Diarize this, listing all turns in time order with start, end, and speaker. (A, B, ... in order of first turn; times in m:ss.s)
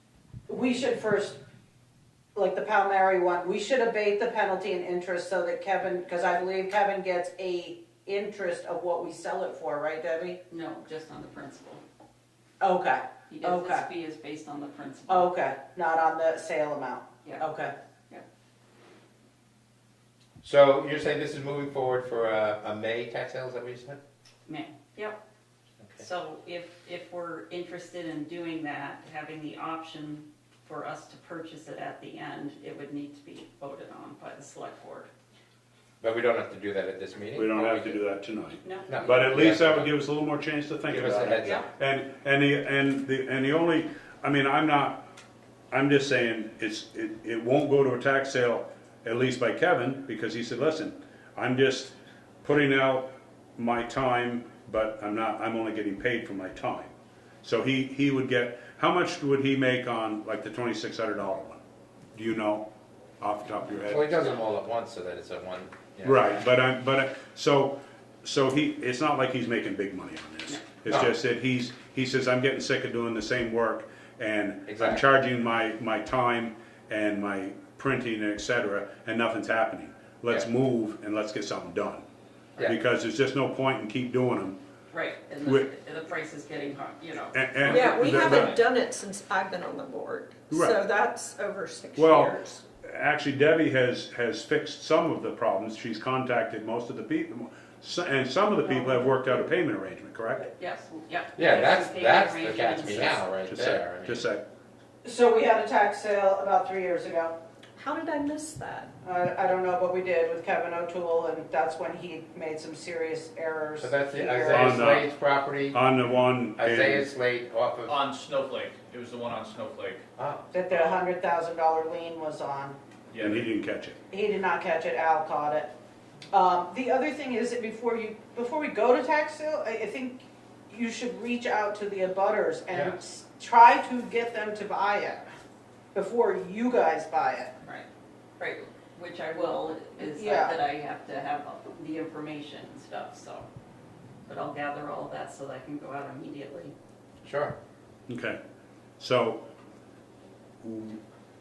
0:00.5-0:01.4 A
0:02.3-0:10.4 A
0:10.5-0:11.8 B
0:12.6-0:13.8 A
0:13.3-0:15.3 B
0:15.1-0:17.7 A
0:20.4-0:24.0 C
0:24.4-0:25.2 B
0:26.0-0:35.1 B
0:36.0-0:38.0 C
0:37.3-0:45.0 D
0:38.6-0:39.2 B
0:38.9-0:39.9 C
0:40.9-0:41.6 C
0:45.7-0:56.9 D
0:57.4-1:01.6 D
1:02.1-1:02.6 D
1:03.2-1:04.1 D
1:03.8-1:06.4 C
1:06.0-1:22.0 D
1:14.6-1:15.0 C
1:22.6-1:24.6 D
1:24.9-1:28.6 B
1:25.4-1:25.7 D
1:27.3-1:28.6 D
1:27.6-1:32.6 E
1:30.5-1:30.8 D
1:32.0-1:40.5 D
1:40.6-1:43.2 B
1:41.4-1:44.2 C
1:43.1-1:44.4 D
1:45.0-1:47.3 A
1:47.8-1:48.9 E
1:49.0-1:54.8 A
1:53.8-1:55.8 C
1:54.5-1:55.1 D
1:55.7-1:57.1 D
1:56.6-1:57.9 C
1:57.8-2:00.0 F
2:00.2-2:00.5 C
2:00.5-2:02.8 A
2:03.1-2:03.4 F
2:03.2-2:04.0 D
2:04.1-2:05.7 A
2:06.3-2:15.3 A
2:12.7-2:13.0 C
2:15.9-2:17.5 A
2:18.4-2:23.5 B
2:20.0-2:20.6 A
2:24.3-2:26.7 B
2:27.2-2:27.5 C
2:28.1-2:28.4 D
2:29.0-2:29.4 D
2:30.6-2:31.0 D